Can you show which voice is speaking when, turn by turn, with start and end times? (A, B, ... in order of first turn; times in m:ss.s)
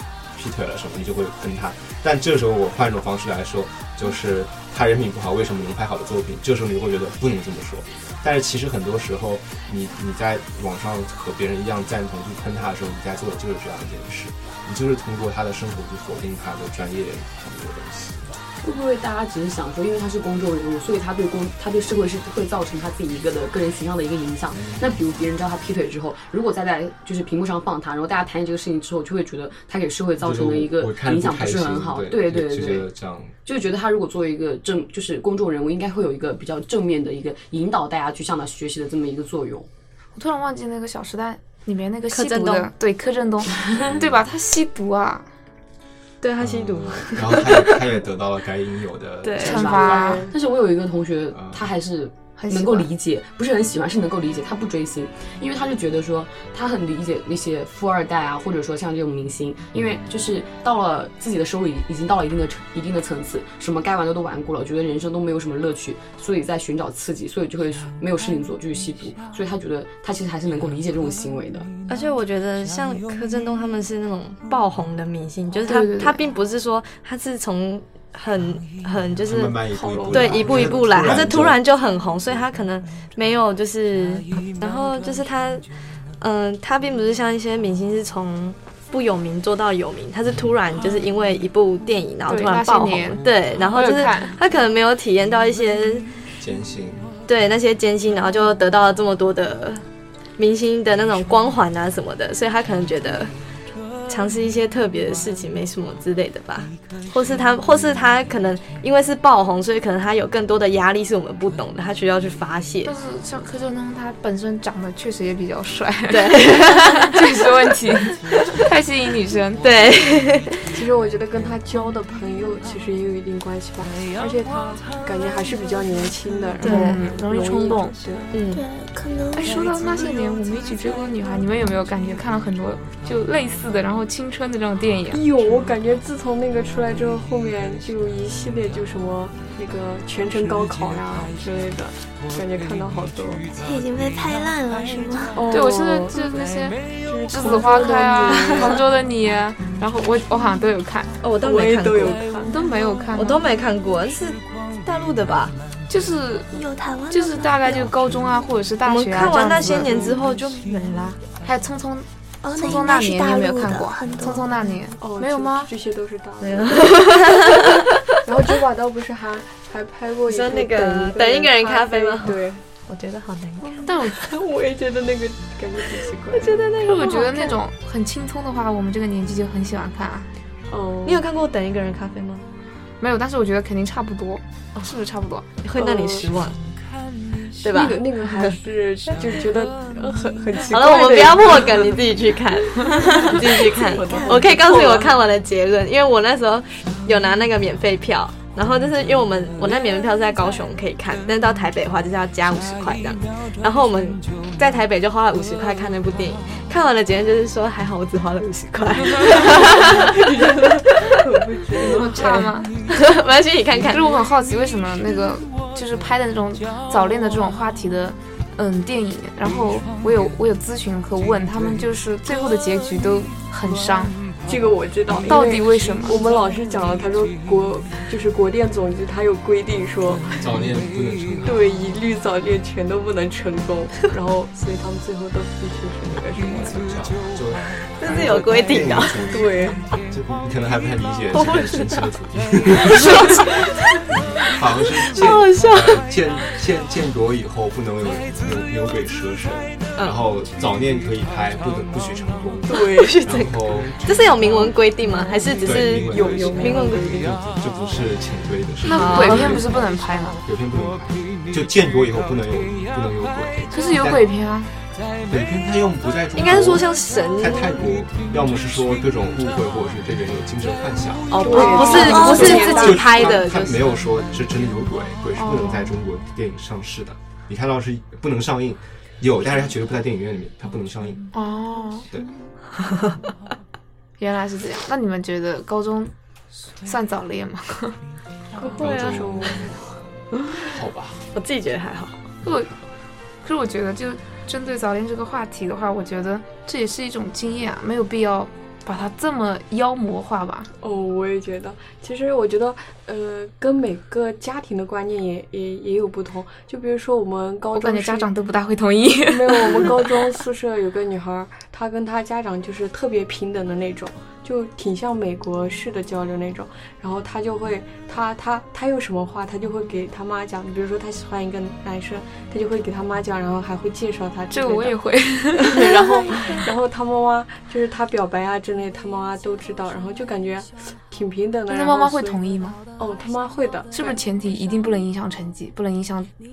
0:00.3-0:18.4 A
0:18.6-0:32.9 B
0:24.5-0:25.0 A
0:30.2-0:33.4 A
0:33.4-0:39.7 B
0:40.2-0:45.3 C
0:42.1-0:42.7 D
0:43.8-0:44.2 A
0:46.2-0:47.8 D
0:46.4-0:49.6 A
0:49.2-0:49.7 D
0:49.4-0:50.3 C
0:49.4-1:11.7 B
0:49.7-0:50.3 E
0:51.3-0:51.7 A
0:52.4-0:52.9 C
1:11.9-1:25.7 D
1:15.6-1:16.2 C
1:19.3-1:21.6 A
1:19.7-1:21.2 E
1:26.2-1:36.1 D
1:32.3-1:34.4 C
1:36.4-1:37.1 A
1:37.3-1:39.9 D
1:40.4-1:43.3 D
1:44.1-1:52.9 D
1:52.8-1:59.6 C
1:56.1-1:57.7 D
1:59.6-2:00.6 D
2:00.7-2:08.3 E
2:06.6-2:08.0 C
2:06.6-2:07.0 D
2:08.3-2:08.6 D
2:08.5-2:10.1 F
2:09.4-2:15.3 C
2:15.1-2:23.6 E
2:23.6-2:25.5 F
2:25.3-2:26.4 E
2:25.5-2:31.2 C
2:27.0-2:28.9 E
2:31.2-2:32.3 D
2:31.4-2:32.5 E
2:32.5-2:33.4 C
2:33.1-2:35.5 D
2:35.9-2:36.5 C
2:36.5-2:37.9 F
2:37.1-2:40.3 C
2:38.8-2:41.2 D
2:41.3-2:45.7 C
2:42.4-2:44.5 F
2:45.0-2:47.2 E
2:46.4-2:47.8 D
2:48.2-2:52.6 E
2:50.3-2:53.9 D
2:53.6-2:56.7 E
2:53.9-2:54.3 C
2:56.3-2:57.6 D
2:56.8-3:00.3 C
3:00.7-3:01.2 E
3:01.0-3:02.4 D
3:03.0-3:05.5 C
3:05.6-3:06.6 D
3:05.8-3:06.3 E
3:07.6-3:08.6 D
3:07.6-3:12.0 E
3:10.7-3:31.2 D
3:13.0-3:15.2 E
3:14.0-3:14.4 F
3:29.4-3:32.6 E
3:31.8-3:32.7 C
3:31.8-3:34.2 D
3:33.9-3:44.2 C
3:44.4-3:50.5 E
3:45.2-3:46.2 C
3:50.3-3:51.7 A
3:51.4-3:57.1 E
3:56.4-4:14.8 A
3:58.0-3:59.3 D
3:59.2-3:59.9 E
4:01.5-4:02.0 D
4:05.1-4:06.0 D
4:12.7-4:13.2 E
4:12.7-4:17.3 D
4:15.2-4:17.3 E
4:15.6-4:19.9 A
4:18.8-4:20.4 C
4:18.8-4:19.6 D
4:20.4-4:24.3 A
4:23.7-4:24.7 C
4:25.3-4:41.3 A
4:26.4-4:27.8 D
4:31.3-4:33.9 D
4:31.3-4:33.1 E
4:31.9-4:32.7 F
4:35.4-4:35.9 C
4:41.3-4:42.1 C
4:44.2-4:46.1 C
4:46.8-4:48.0 C
4:48.6-4:49.8 E
4:48.6-4:49.7 D
4:48.8-4:51.3 A
4:51.3-4:52.2 D
4:52.4-4:52.7 C
4:53.4-5:00.7 C
5:00.8-5:08.3 E
5:07.7-5:10.1 C
5:09.2-5:25.0 E
5:24.5-5:26.1 C
5:25.7-5:32.4 E
5:31.7-5:32.8 C
5:33.0-5:34.2 E
5:33.9-5:36.3 C